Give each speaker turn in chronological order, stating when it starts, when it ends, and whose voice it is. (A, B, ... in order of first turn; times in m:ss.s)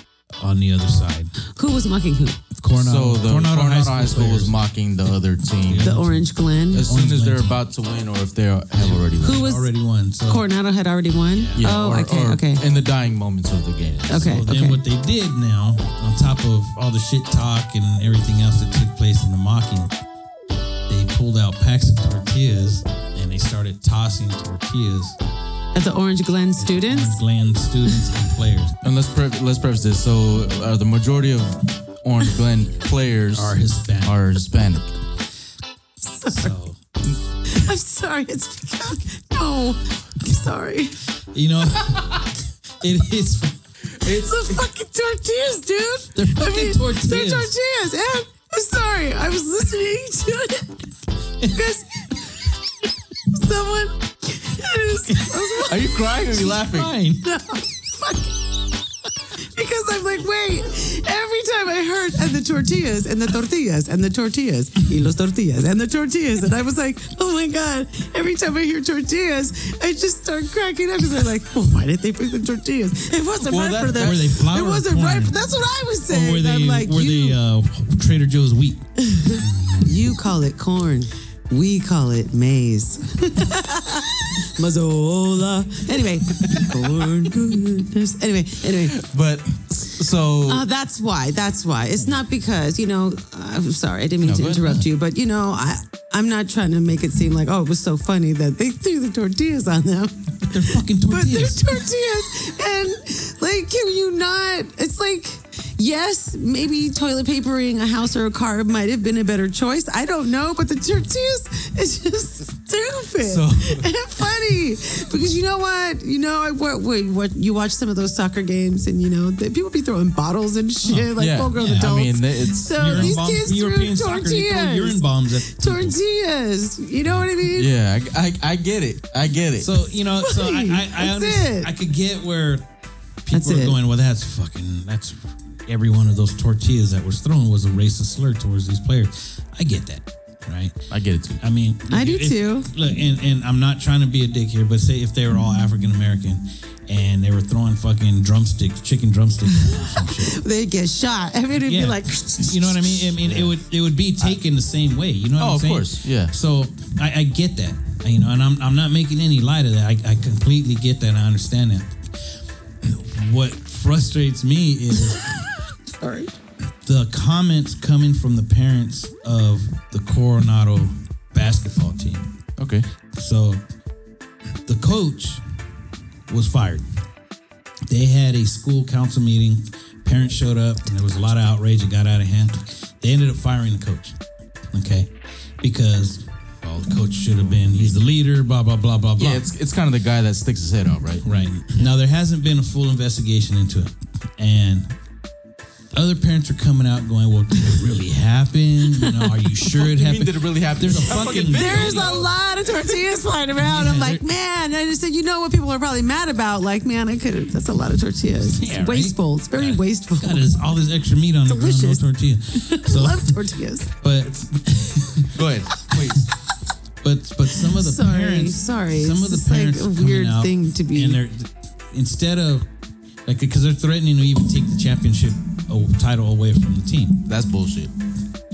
0:00.4-0:01.3 A
0:01.5-0:02.4 B
0:02.6-0:07.6 A
0:02.8-0:05.9 C
0:05.8-0:06.9 B
0:06.7-0:09.5 C
0:08.8-0:10.4 A
0:09.2-0:09.7 B
0:10.3-0:12.6 B
0:11.3-0:11.7 A
0:11.6-0:14.4 C
0:14.0-0:19.9 A
0:14.1-0:14.8 B
0:20.9-0:25.2 A
0:25.7-0:27.2 B
0:26.6-0:28.8 A
0:28.8-0:34.9 C
0:33.3-0:34.2 A
0:36.1-0:36.6 B
0:36.3-0:36.8 A
0:37.5-0:41.0 B
0:41.3-0:43.6 A
0:44.0-0:50.9 B
0:44.0-0:44.4 C
0:46.2-0:47.5 A
0:51.5-0:52.1 B
0:53.3-0:56.5 B
0:55.1-0:55.6 A
0:55.7-0:56.9 C
0:56.4-0:57.2 A
0:57.2-0:58.4 B
0:59.4-1:17.4 B
1:13.4-1:14.4 C
1:14.0-1:15.4 A
1:16.1-1:19.1 A
1:19.0-1:29.0 B
1:28.9-1:30.6 C
1:30.5-1:40.5 B
1:34.2-1:34.8 C
1:40.5-1:41.9 A
1:41.1-2:07.7 B
1:53.2-1:54.0 C
2:00.8-2:02.0 A
2:01.2-2:03.2 C
2:02.8-2:06.0 A
2:07.4-2:09.8 C
2:09.6-2:12.7 A
2:10.2-2:11.7 B
2:13.2-2:30.4 A
2:13.3-2:13.8 B
2:20.9-2:21.4 C
2:21.9-2:22.7 B
2:29.6-2:32.8 B
2:31.6-2:45.5 A
2:32.9-2:33.6 C
2:35.4-2:36.3 C
2:46.0-2:46.3 B
2:46.8-2:52.3 A
2:52.6-2:52.8 C
2:53.2-2:53.6 A
2:54.7-2:55.4 A
2:56.3-2:56.9 A
2:57.9-3:04.2 A
3:04.7-3:09.4 A
3:07.4-3:08.0 C
3:09.2-3:11.3 C
3:11.2-3:15.0 A
3:15.9-3:22.3 A
3:19.8-3:22.3 C
3:21.5-3:30.5 B
3:23.6-3:24.2 A
3:28.6-3:36.0 A
3:31.5-3:33.9 B
3:35.4-3:36.3 C
3:37.0-3:42.7 A
3:37.7-3:41.2 B
3:43.3-3:47.2 A
3:47.3-3:47.9 C